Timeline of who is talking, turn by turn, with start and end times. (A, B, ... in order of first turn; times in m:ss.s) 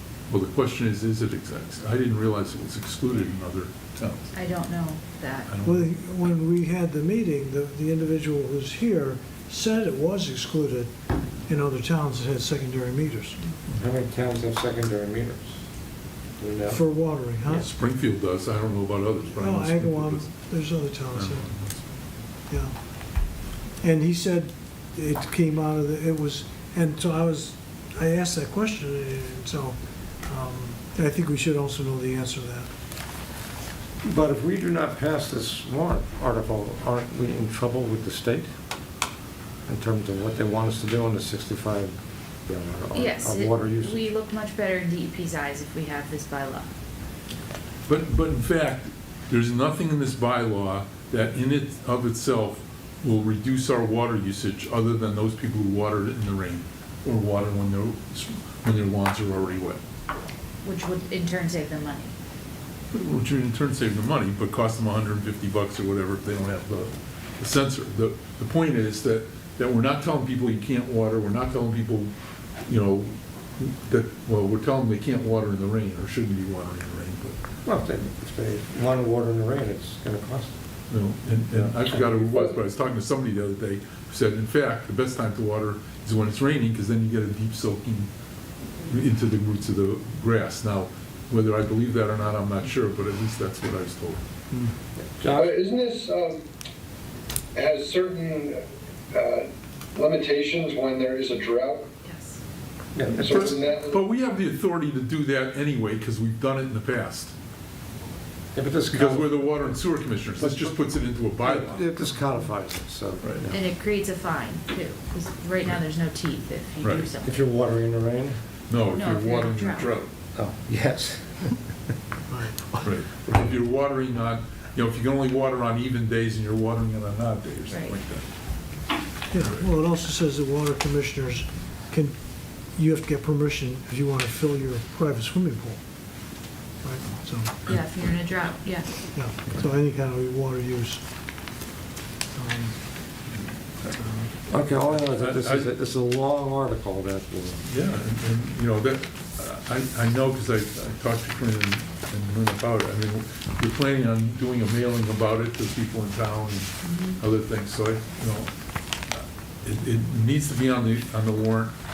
0:00.3-0:04.3 A
0:04.3-0:05.5 B
0:05.5-0:05.9 A
0:05.6-0:10.9 C
0:11.5-0:13.4 C
0:13.7-0:15.5 D
0:16.4-0:16.8 D
0:16.7-0:17.7 C
0:17.6-0:20.3 A
0:19.3-0:21.5 C
0:21.1-0:21.8 A
0:22.5-0:22.7 C
0:23.8-0:32.7 C
0:34.0-0:38.5 D
0:39.7-0:41.9 D
0:42.4-0:44.0 D
0:42.9-0:46.7 B
0:47.9-0:59.8 A
1:00.6-1:02.1 B
1:02.9-1:12.1 A
1:12.6-1:17.4 A
1:17.6-1:20.5 D
1:20.9-1:28.1 A
1:21.5-1:22.1 D
1:28.8-1:34.2 A
1:35.0-1:35.6 D
1:35.3-1:36.4 E
1:37.5-1:38.6 E
1:39.1-1:41.9 E
1:42.0-1:42.4 B
1:42.9-1:43.6 D
1:43.2-1:44.0 E
1:43.2-1:47.3 A
1:48.5-1:49.4 D
1:48.9-1:52.0 A
1:50.4-1:50.7 D
1:51.4-1:53.6 D
1:53.5-1:57.3 B
1:56.8-1:57.1 A
1:57.2-1:58.4 D
1:58.7-2:00.1 A
1:58.8-2:00.0 B
2:00.3-2:01.6 D
2:02.3-2:02.9 C
2:02.8-2:08.2 A
2:07.7-2:08.0 B
2:09.3-2:12.2 C
2:09.4-2:09.6 A
2:12.7-2:15.8 C
2:16.8-2:17.6 C
2:17.6-2:19.1 B
2:19.1-2:21.0 C
2:22.3-2:22.8 C
2:24.5-2:27.6 D
2:24.6-2:25.7 A
2:27.6-2:38.5 A
2:36.8-2:37.2 B
2:39.1-2:41.7 A